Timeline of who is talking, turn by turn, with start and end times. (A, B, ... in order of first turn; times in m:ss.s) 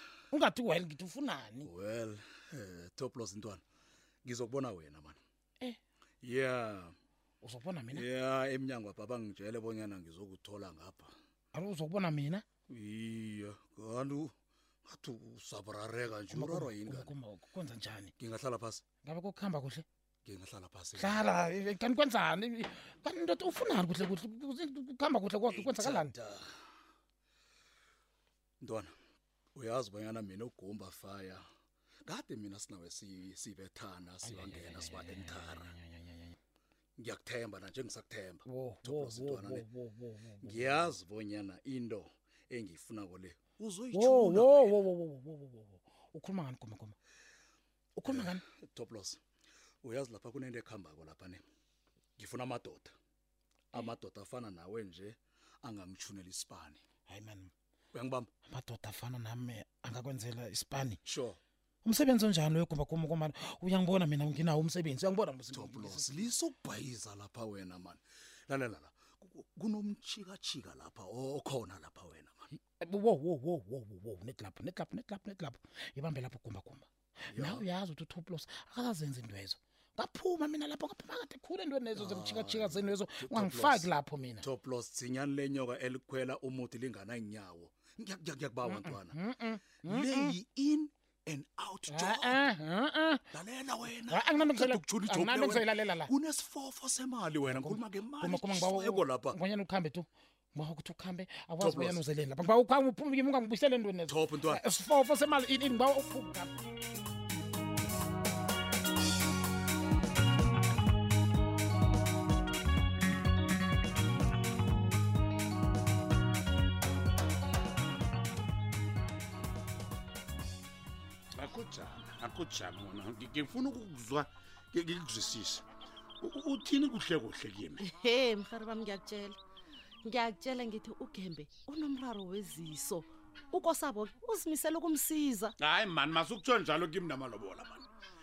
0:00.3-0:01.7 A
0:01.6-0:03.6 B
0:04.2-0:05.2 B
0:06.2-0:06.9 B
0:07.4-0:08.1 A
0:07.9-0:11.1 B
0:11.5-0:12.5 A
0:12.7-0:14.3 B
0:14.8-0:17.1 B
0:16.3-0:18.1 A
0:18.2-0:18.8 B
0:19.0-0:19.8 A
0:20.2-0:21.2 B
0:21.0-0:26.1 A
0:25.5-0:26.5 B
0:28.6-0:28.9 B
0:29.6-0:31.4 B
0:32.1-0:35.7 B
0:34.2-0:36.4 A
0:37.0-0:39.7 B
0:38.5-0:40.9 A
0:40.4-0:44.8 B
0:43.9-0:46.9 A
0:48.0-0:48.4 A
0:48.1-0:49.2 B
0:49.8-0:51.4 B
0:52.2-0:52.9 B
0:53.7-0:56.8 B
0:57.1-0:57.5 A
0:57.9-0:58.3 B
0:58.5-1:01.0 A
1:01.0-1:01.4 B
1:01.8-1:06.3 A
1:05.5-1:12.5 B
1:12.6-1:24.4 A
1:17.3-1:17.7 B
1:21.9-1:29.2 B
1:28.6-1:30.4 A
1:29.8-1:32.5 B
1:31.9-1:33.2 A
1:33.3-1:39.4 B
1:34.1-1:36.1 A
1:37.4-1:46.5 A
1:41.6-1:42.0 B
1:44.1-1:44.6 B
2:01.4-2:05.6 C
2:06.2-2:07.8 C
2:07.8-2:09.4 D
2:10.0-2:15.6 D
2:15.6-2:17.9 C